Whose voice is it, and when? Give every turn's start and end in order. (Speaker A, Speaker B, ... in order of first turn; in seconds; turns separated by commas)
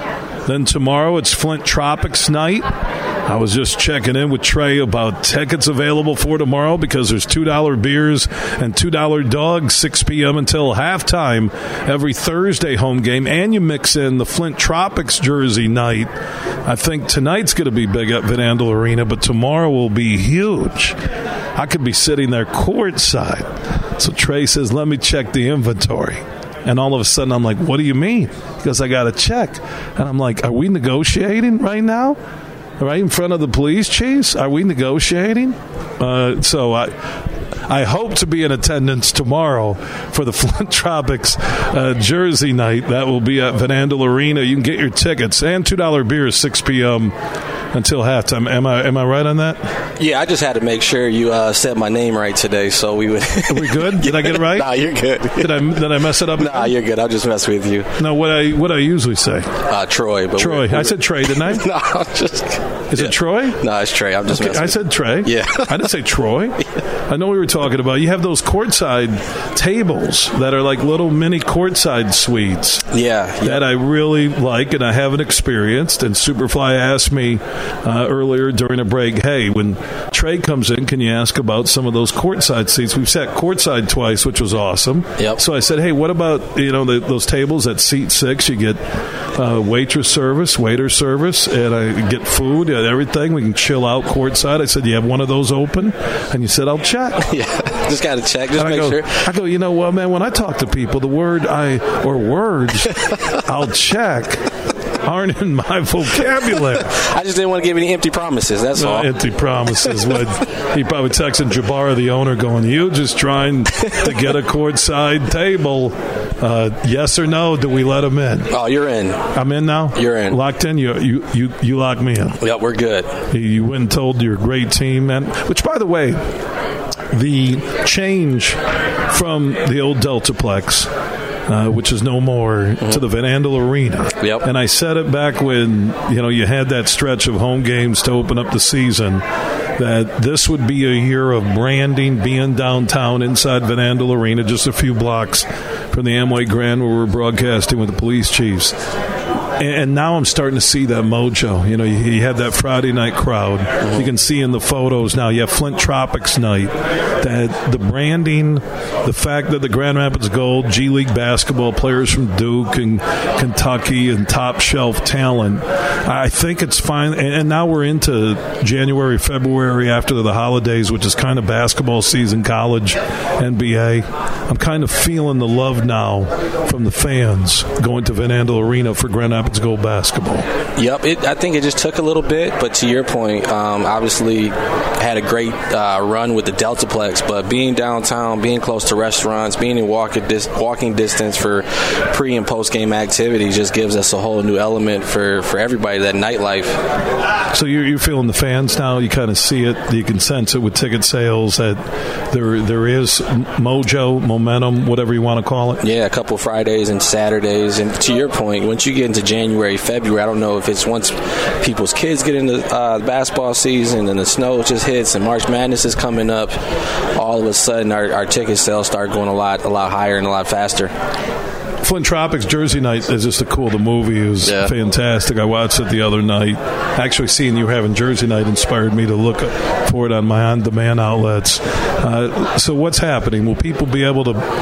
Speaker A: 0.5-2.7, Speaker A: 3.2-16.1, Speaker A: 16.6-21.0, Speaker A: 21.6-32.2, Speaker A: 32.8-36.9, Speaker A: 37.7-47.1, Speaker A: 47.7-49.6, Speaker B: 50.0-57.9, Speaker A: 53.5-54.7, Speaker A: 55.4-56.7, Speaker A: 58.0-59.6, Speaker B: 59.6-65.9, Speaker A: 60.4-61.7, Speaker A: 62.9-63.6, Speaker A: 64.3-72.8, Speaker B: 72.9-73.6, Speaker A: 73.4-88.8, Speaker A: 89.3-97.3, Speaker B: 97.2-99.2, Speaker A: 98.6-104.4, Speaker A: 105.0-106.9, Speaker B: 106.6-109.1, Speaker A: 108.8-118.5, Speaker B: 118.5-119.3, Speaker A: 119.3-122.4, Speaker B: 119.9-120.4, Speaker B: 122.4-123.1, Speaker A: 123.3-126.2, Speaker A: 127.1-130.9, Speaker A: 131.5-139.2, Speaker B: 134.2-134.4, Speaker A: 139.8-148.7, Speaker A: 149.6-180.4, Speaker B: 180.8-196.8, Speaker A: 197.5-201.8, Speaker A: 202.3-205.8, Speaker B: 205.8-220.9, Speaker A: 221.8-234.5, Speaker B: 224.4-224.7